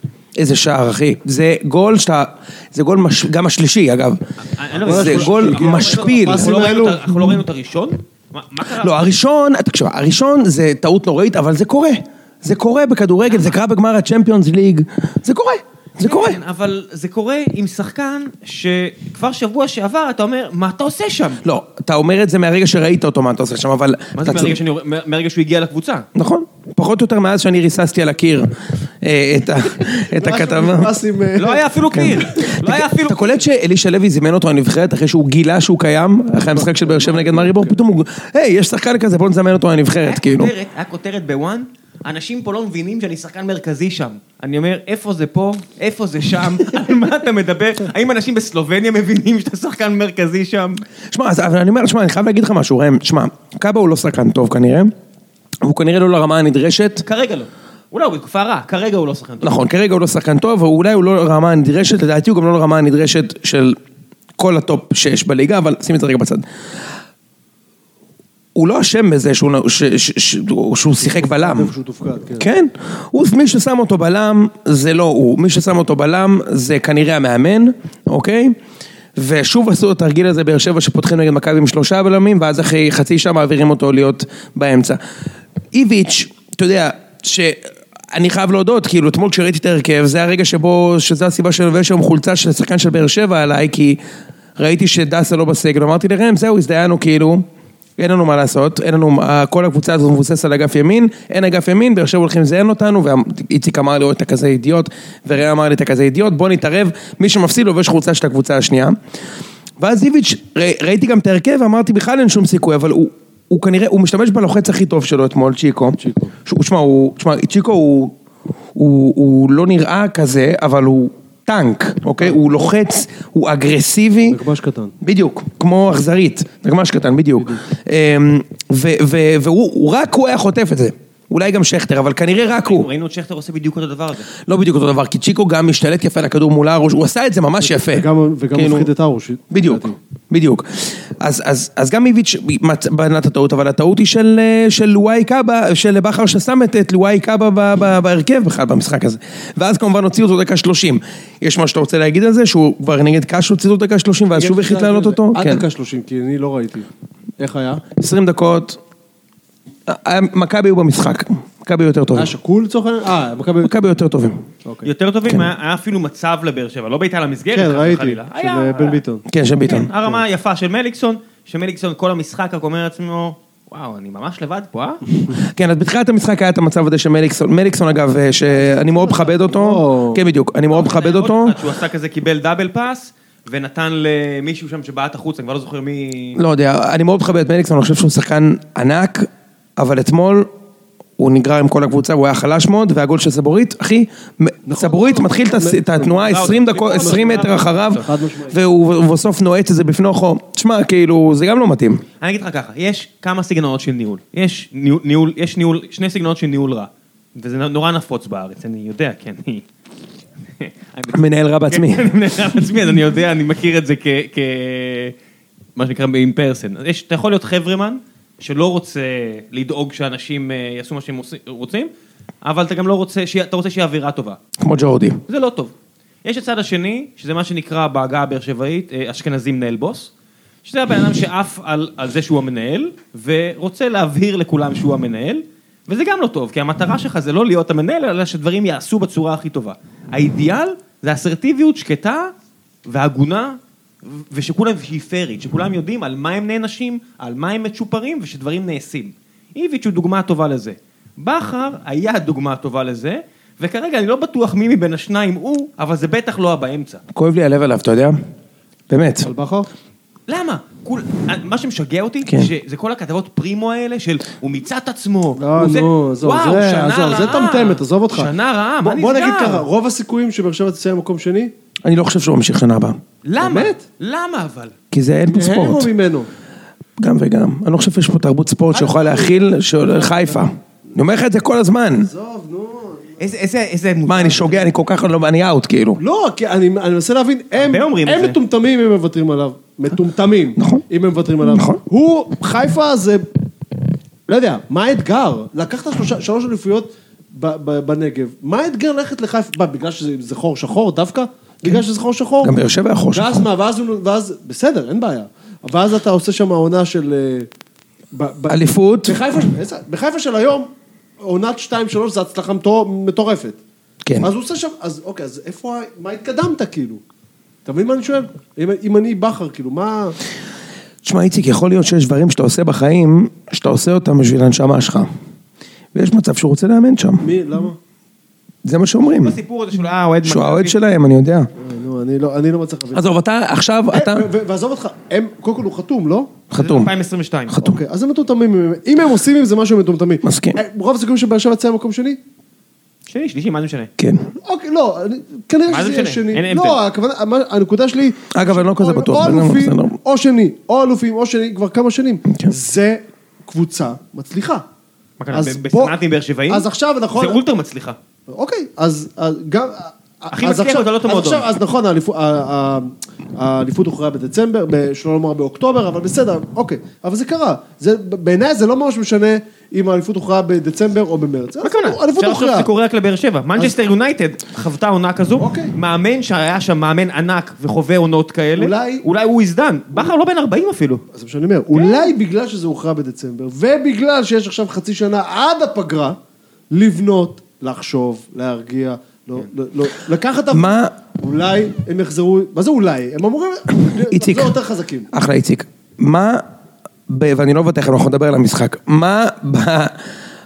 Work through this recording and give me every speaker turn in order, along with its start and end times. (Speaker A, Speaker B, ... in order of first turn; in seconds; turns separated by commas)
Speaker A: 0.3-4.2, Speaker B: 4.4-9.0, Speaker C: 4.8-7.0, Speaker A: 4.8-6.5, Speaker A: 7.1-7.4, Speaker A: 8.8-16.4, Speaker B: 13.2-13.5, Speaker B: 16.0-21.4, Speaker A: 21.4-24.6, Speaker B: 24.1-26.1, Speaker A: 26.1-30.9, Speaker C: 29.8-32.5, Speaker B: 31.4-33.5, Speaker A: 31.9-40.5, Speaker C: 36.5-37.8, Speaker B: 40.0-50.8, Speaker A: 51.1-54.9, Speaker A: 55.6-57.0, Speaker B: 57.0-59.6, Speaker A: 59.4-63.8, Speaker A: 64.4-66.4, Speaker A: 68.5-71.7, Speaker C: 71.0-72.5, Speaker A: 72.4-78.5, Speaker A: 79.2-85.0, Speaker A: 85.7-94.0, Speaker A: 94.6-97.4, Speaker A: 98.0-109.0, Speaker A: 109.8-118.1, Speaker C: 116.0-116.3, Speaker A: 118.7-124.4, Speaker C: 124.3-124.9, Speaker A: 125.0-132.9, Speaker B: 132.6-134.3, Speaker A: 134.4-138.9, Speaker C: 137.6-140.0, Speaker A: 139.5-155.6, Speaker C: 154.3-156.9, Speaker C: 157.4-157.8, Speaker A: 158.0-158.8, Speaker A: 159.9-162.3, Speaker C: 162.1-163.7, Speaker A: 163.6-164.4, Speaker C: 164.6-164.9, Speaker B: 164.8-169.0, Speaker C: 167.5-169.2, Speaker A: 169.3-169.9, Speaker B: 169.6-175.0, Speaker A: 175.3-181.5, Speaker C: 178.5-180.2, Speaker B: 180.7-186.4, Speaker A: 186.4-190.5, Speaker A: 191.2-202.0, Speaker C: 194.7-198.6, Speaker B: 196.2-198.1, Speaker B: 202.2-209.7, Speaker B: 210.6-215.1, Speaker A: 211.1-212.1, Speaker B: 215.8-221.9, Speaker B: 222.4-224.4, Speaker A: 224.6-225.2, Speaker B: 225.3-230.1, Speaker B: 230.6-242.3, Speaker B: 242.8-257.0, Speaker A: 257.1-258.1, Speaker A: 258.9-259.3, Speaker C: 259.2-259.7, Speaker B: 260.3-269.6, Speaker C: 265.4-271.5, Speaker A: 271.8-273.0, Speaker B: 273.2-274.7, Speaker C: 273.4-273.8, Speaker A: 274.9-275.9, Speaker C: 275.2-276.3, Speaker A: 277.0-282.1, Speaker C: 278.7-280.4, Speaker C: 282.0-283.2, Speaker B: 283.2-284.7, Speaker A: 284.1-286.0, Speaker C: 286.0-293.3, Speaker B: 287.6-288.4, Speaker A: 290.6-290.8, Speaker A: 291.4-291.8, Speaker C: 294.3-302.6, Speaker A: 302.4-303.4, Speaker C: 303.1-307.5, Speaker C: 308.1-310.7, Speaker A: 308.5-309.2, Speaker C: 311.2-313.6, Speaker C: 314.2-317.0, Speaker C: 317.6-320.2, Speaker A: 321.0-325.1, Speaker A: 325.9-327.3, Speaker C: 327.2-327.8, Speaker A: 328.6-329.4, Speaker B: 329.1-330.8, Speaker A: 330.2-331.5, Speaker C: 331.6-333.1, Speaker A: 332.9-334.3, Speaker C: 333.9-336.4, Speaker A: 336.5-336.9, Speaker B: 336.6-337.5, Speaker A: 337.5-337.8, Speaker C: 337.6-342.2, Speaker A: 340.2-340.6, Speaker B: 343.1-343.9, Speaker A: 344.0-344.3, Speaker C: 344.4-354.6, Speaker B: 345.7-346.8, Speaker A: 348.3-349.9, Speaker B: 355.2-358.0, Speaker C: 355.3-355.9, Speaker C: 356.5-357.4, Speaker C: 358.3-372.7, Speaker B: 360.3-361.5, Speaker B: 371.6-381.0, Speaker C: 375.4-375.7, Speaker C: 378.6-379.0, Speaker C: 381.1-386.2, Speaker B: 381.7-382.1, Speaker C: 386.7-395.1, Speaker A: 390.5-390.9, Speaker A: 394.1-394.5, Speaker A: 395.1-396.4, Speaker A: 397.1-399.9